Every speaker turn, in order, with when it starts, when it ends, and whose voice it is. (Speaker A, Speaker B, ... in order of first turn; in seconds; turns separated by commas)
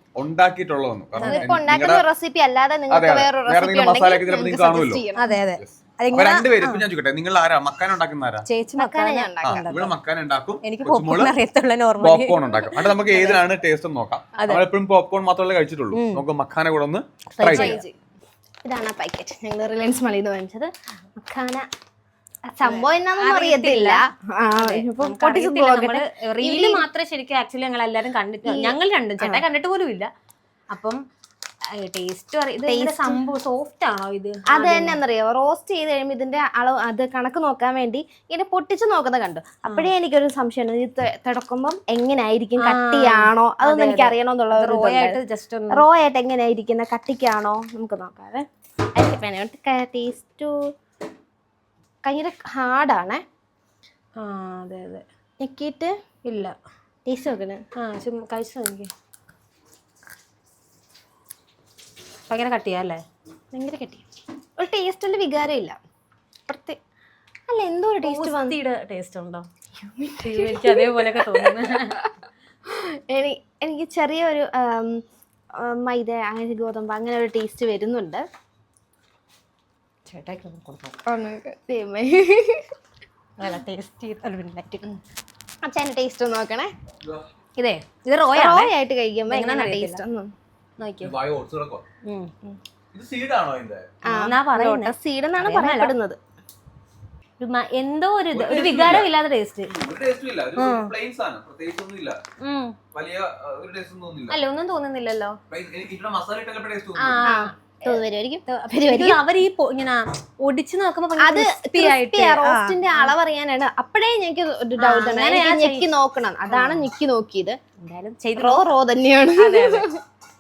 Speaker A: 0.2-2.0, Speaker B: 1.2-1.5, Speaker C: 1.2-5.3, Speaker A: 2.9-5.0, Speaker B: 5.2-6.9, Speaker A: 5.6-8.4, Speaker B: 8.5-9.9, Speaker C: 8.8-9.7, Speaker A: 9.4-11.3, Speaker B: 10.6-13.4, Speaker A: 12.0-17.8, Speaker B: 14.4-14.7, Speaker B: 15.9-16.2, Speaker B: 17.4-17.8, Speaker C: 17.4-17.9, Speaker C: 18.6-21.7, Speaker B: 22.6-24.0, Speaker C: 22.6-26.9, Speaker B: 24.6-30.1, Speaker C: 28.5-29.4, Speaker B: 30.7-31.0, Speaker B: 31.8-35.0, Speaker C: 32.7-33.2, Speaker C: 34.5-45.2, Speaker B: 42.6-45.9, Speaker C: 45.7-50.7, Speaker C: 52.0-53.2, Speaker B: 54.2-55.0, Speaker C: 55.4-56.0, Speaker B: 56.3-56.5, Speaker C: 57.1-57.6, Speaker B: 57.8-58.9, Speaker B: 62.3-63.0, Speaker C: 63.5-64.0, Speaker C: 64.6-65.8, Speaker C: 66.5-66.8, Speaker C: 67.5-68.6, Speaker B: 68.0-69.5, Speaker C: 69.8-72.1, Speaker B: 70.2-72.0, Speaker C: 72.7-75.0, Speaker C: 75.6-78.2, Speaker B: 80.1-81.0, Speaker C: 81.1-82.7, Speaker B: 83.4-84.8, Speaker C: 85.6-86.7, Speaker B: 87.6-88.7, Speaker C: 88.3-90.3, Speaker B: 89.3-90.0, Speaker B: 90.8-91.2, Speaker A: 91.0-91.8, Speaker B: 92.0-92.3, Speaker A: 92.9-93.9, Speaker C: 94.1-96.2, Speaker B: 94.1-95.9, Speaker B: 97.4-99.7, Speaker A: 98.3-99.1, Speaker A: 99.7-102.2, Speaker B: 100.6-100.9, Speaker B: 102.4-102.8, Speaker A: 102.9-104.4, Speaker B: 104.3-105.4, Speaker A: 105.5-107.2, Speaker B: 107.0-113.1, Speaker C: 107.2-109.2, Speaker C: 111.2-117.6, Speaker B: 114.8-115.9, Speaker B: 116.5-116.9, Speaker B: 117.8-118.7, Speaker C: 118.4-120.0, Speaker B: 119.4-119.9